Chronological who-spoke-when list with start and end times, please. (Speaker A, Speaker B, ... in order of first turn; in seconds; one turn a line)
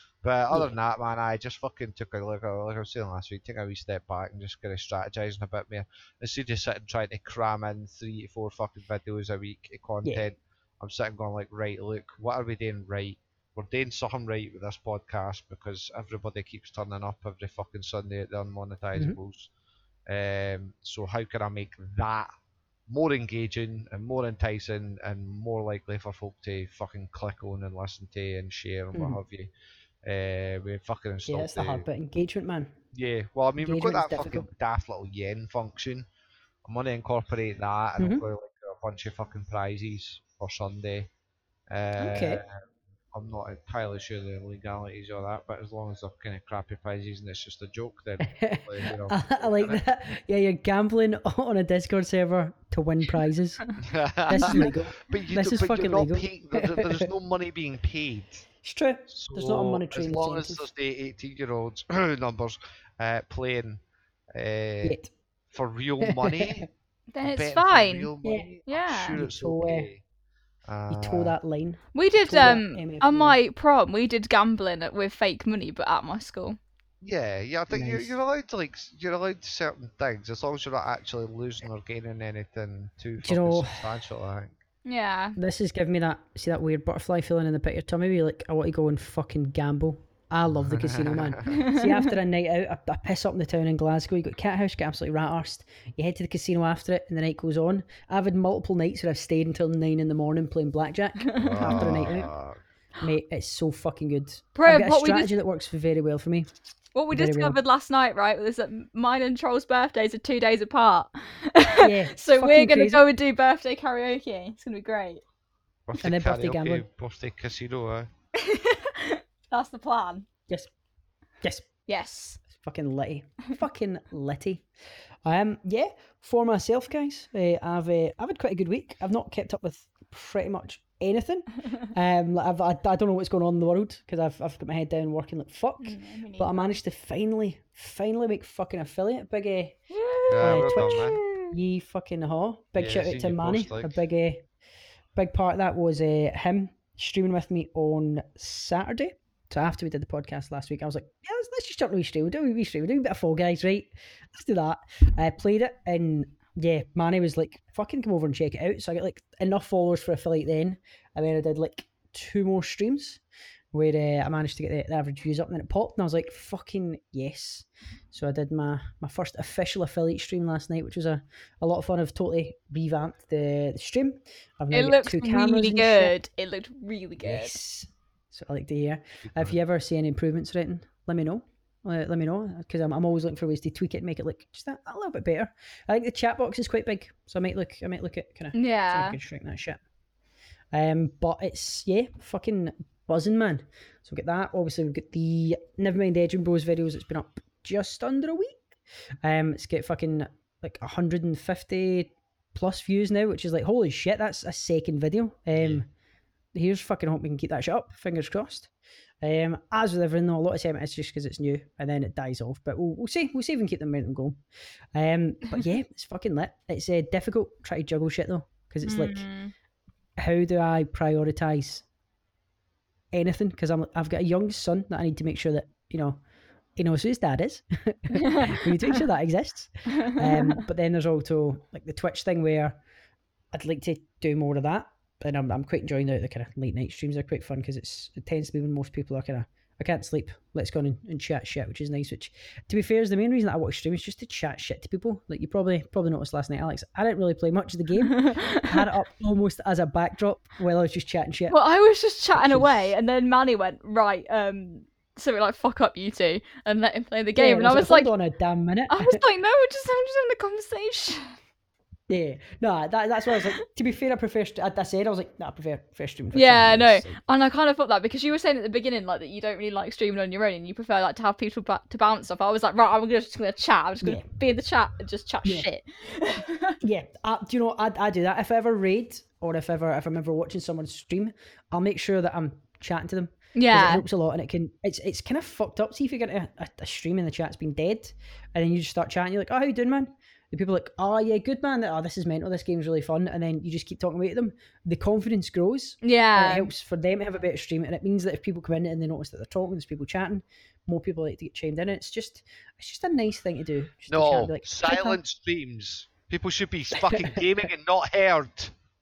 Speaker A: 0.2-19.5
Speaker A: 20.1-22.3
Speaker A: 22.9-29.5
Speaker B: 28.9-29.2
Speaker A: 30.1-31.9
Speaker B: 31.3-32.7
Speaker A: 32.9-36.1
Speaker B: 33.6-34.5
Speaker A: 36.6-41.1
Speaker B: 38.0-38.2
Speaker A: 41.7-42.6
Speaker B: 42.0-42.4
Speaker A: 43.1-49.8
Speaker B: 48.2-53.6
Speaker A: 53.8-58.5
Speaker B: 54.3-57.1
Speaker C: 54.4-54.6
Speaker B: 58.6-60.7
Speaker A: 59.1-63.8
Speaker A: 64.3-65.0
Speaker B: 64.8-65.1
Speaker A: 65.5-66.7
Speaker B: 66.0-66.7
Speaker C: 67.1-68.1
Speaker A: 67.2-70.0
Speaker B: 68.2-68.5
Speaker C: 68.7-69.2
Speaker B: 69.2-69.9
Speaker A: 70.7-71.3
Speaker B: 70.9-73.4
Speaker C: 72.0-76.6
Speaker A: 77.0-84.5
Speaker B: 77.7-78.2
Speaker B: 83.2-83.9
Speaker C: 84.8-85.4
Speaker B: 85.4-102.3
Speaker A: 90.7-91.5
Speaker C: 91.5-92.1
Speaker C: 101.3-101.9
Speaker A: 101.4-102.6
Speaker B: 103.0-106.5
Speaker C: 104.6-105.3
Speaker C: 107.0-115.2
Speaker B: 107.1-107.6
Speaker B: 111.8-113.0
Speaker A: 115.9-118.1
Speaker B: 116.0-116.8
Speaker C: 118.4-120.3
Speaker B: 121.4-121.7
Speaker C: 121.9-122.4
Speaker B: 122.5-124.7
Speaker B: 125.2-139.8
Speaker C: 135.8-136.7
Speaker C: 139.9-141.5
Speaker A: 140.3-141.2
Speaker B: 140.4-144.4
Speaker A: 142.8-143.9
Speaker B: 145.2-163.2
Speaker B: 163.7-176.1
Speaker C: 174.7-177.6
Speaker B: 177.2-189.8
Speaker A: 179.3-179.6
Speaker C: 188.5-189.2
Speaker B: 190.7-198.6
Speaker B: 199.2-205.9
Speaker A: 205.6-205.8
Speaker B: 206.5-208.7
Speaker B: 209.2-214.4
Speaker B: 214.9-219.3
Speaker C: 218.8-219.5
Speaker B: 220.2-221.8
Speaker B: 223.1-226.2
Speaker B: 226.8-232.8
Speaker C: 228.2-228.6
Speaker C: 230.0-230.6
Speaker B: 233.5-251.6
Speaker C: 248.1-248.7
Speaker C: 251.5-258.1
Speaker B: 252.4-252.9
Speaker B: 257.4-259.2
Speaker C: 258.9-261.3
Speaker B: 262.1-267.2
Speaker C: 266.3-276.8
Speaker B: 276.8-305.2
Speaker C: 283.6-284.0
Speaker C: 296.0-296.7
Speaker A: 304.1-308.7
Speaker B: 307.0-307.4